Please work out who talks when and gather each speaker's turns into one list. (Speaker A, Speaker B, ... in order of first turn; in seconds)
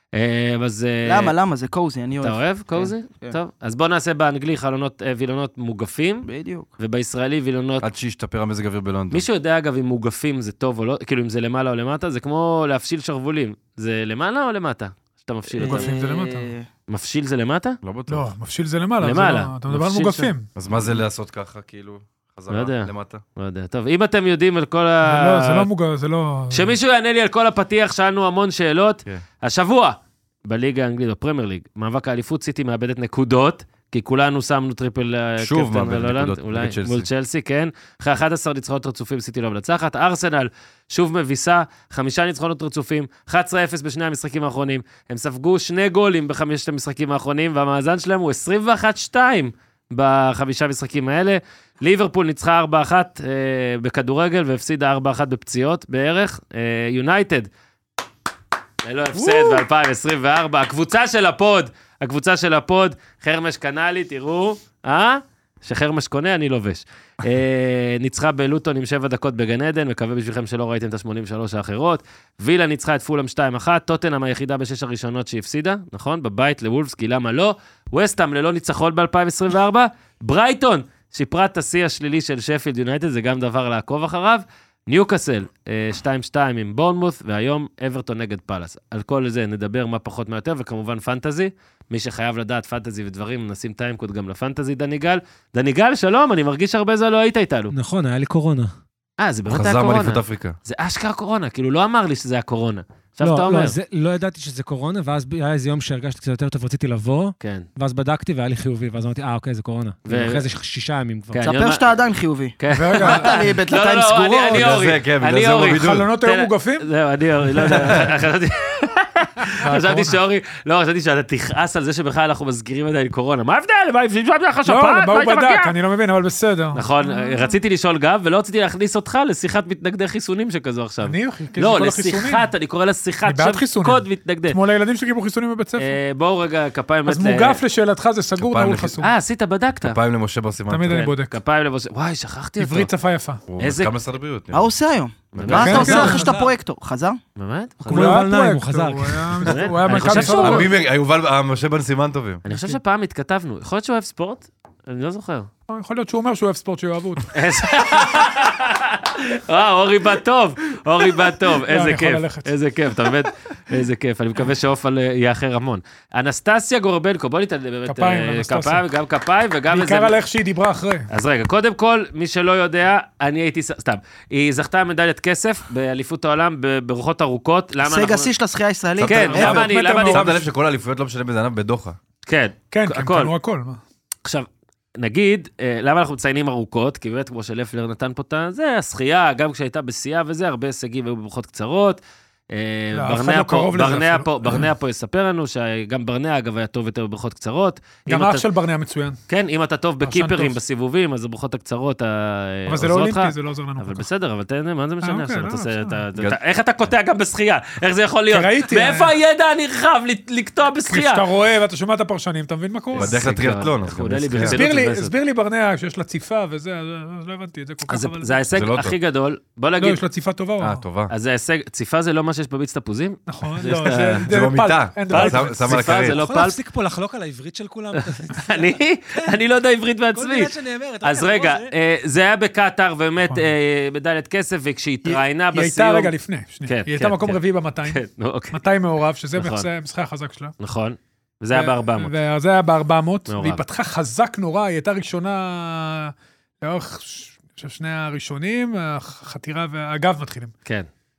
Speaker A: 0.1-1.3, 2.2-7.8, 9.1-15.9, 16.9-17.8, 19.0-20.3, 22.5-25.7, 26.5-57.5, 58.8-97.7, 99.2-103.8, 110.0-110.4, 111.3-111.8, 112.6-125.7, 126.7-134.6, 135.8-137.6, 139.0-140.0, 140.9-142.9, 143.6-143.9, 145.3-146.3, 147.4-148.2, 149.4-150.7, 152.4-155.5, 157.3-170.2, 171.1-178.3, 179.1-180.3, 182.2-183.3, 185.0-192.0, 192.5-198.5, 199.3-211.2, 212.9-215.1, 217.9-220.0, 221.1-224.2, 225.1-226.6, 227.9-236.1, 236.7-238.6, 239.3-239.7, 240.6-242.1, 243.3-243.6
Speaker B: 1.0-3.3, 6.2-6.7, 15.6-16.7, 111.4-114.8, 144.5-147.2, 177.8-179.6
Speaker C: 7.8-9.2, 17.8-18.3, 20.6-23.2, 35.4-37.1, 99.5-100.6, 114.5-116.1, 138.4-139.0, 139.8-141.1, 143.5-144.7, 145.3-146.1, 150.2-152.4, 179.0-182.0, 212.9-214.6, 218.5-218.9, 220.6-221.1, 223.7-226.2
Speaker D: 15.6-16.5, 18.1-20.5, 25.1-26.7, 112.7-113.5, 115.6-116.9, 119.6-120.2, 124.6-127.6, 131.0-132.5, 133.2-136.0, 137.1-139.1, 140.7-141.3, 142.6-143.4, 145.6-146.3, 147.9-150.7, 155.7-157.4, 161.7-162.5, 167.9-168.8, 169.7-171.1, 179.3-180.5, 182.7-183.8, 192.9-194.7, 198.1-199.2, 200.0-200.6, 202.7-204.1, 205.0-206.0, 208.3-209.1, 210.9-213.2, 214.4-218.4, 219.8-220.8, 223.3-225.8, 235.0-240.5, 241.5-250.5
Speaker E: 97.7-98.7, 103.2-111.4, 145.7-146.5, 147.8-150.2, 225.7-229.4, 230.1-231.7